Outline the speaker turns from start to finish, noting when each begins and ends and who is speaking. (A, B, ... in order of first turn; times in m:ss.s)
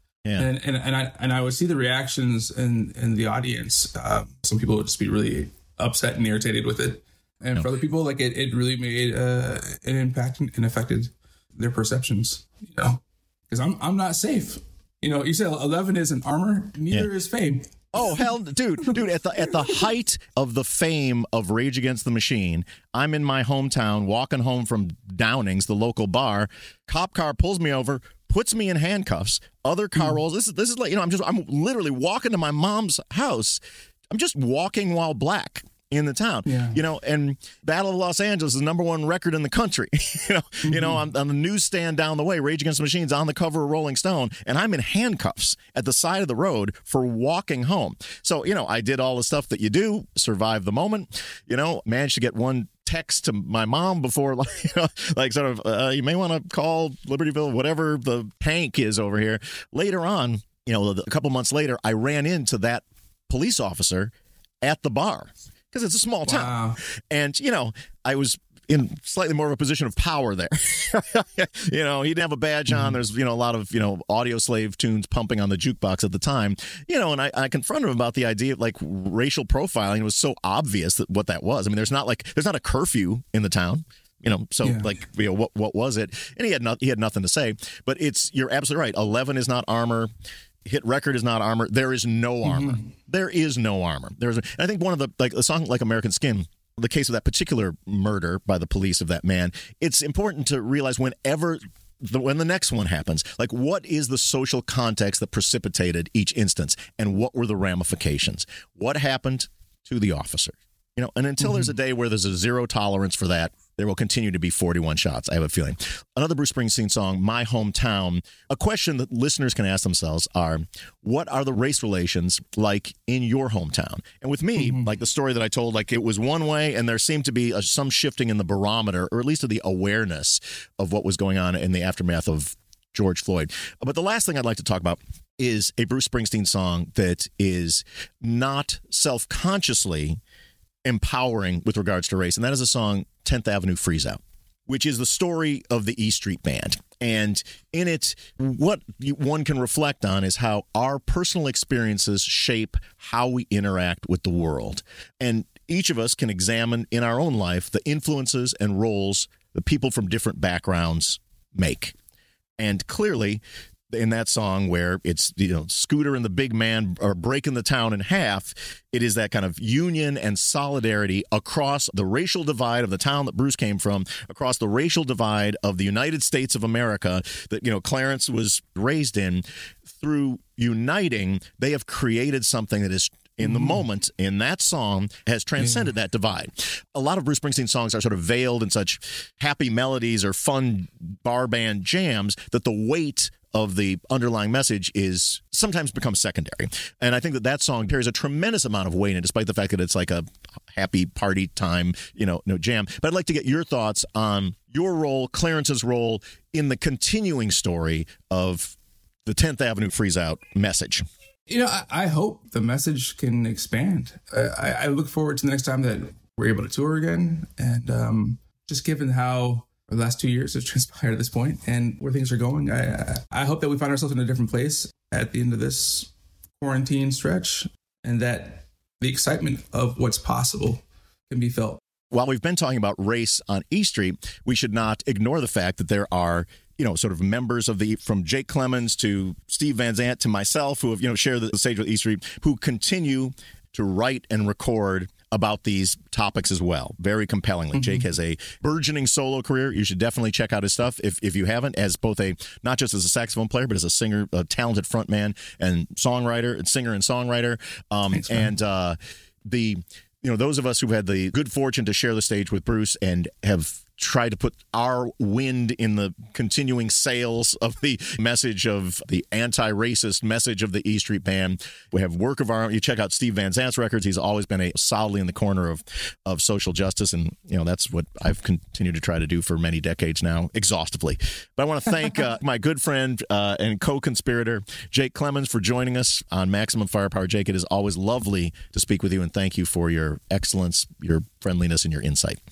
0:00.4-0:18.3 A
0:17.9-0:33.6 B
0:34.1-1:04.1 B
0:36.4-0:36.8 A
0:40.6-0:41.0 A
1:04.6-1:30.1 B
1:06.3-1:06.8 A
1:12.7-1:13.0 A
1:24.6-1:24.9 A
1:30.6-2:20.2 B
1:32.4-1:32.9 A
1:51.4-1:51.7 A
2:04.6-2:04.9 A
2:20.8-2:42.0 B
2:42.6-3:31.0 B
3:03.4-3:03.8 A
3:05.6-3:05.9 A
3:31.5-3:51.8 A
3:52.1-4:19.0 B
4:07.7-4:08.1 A
4:18.1-4:18.6 A
4:19.5-4:52.4 B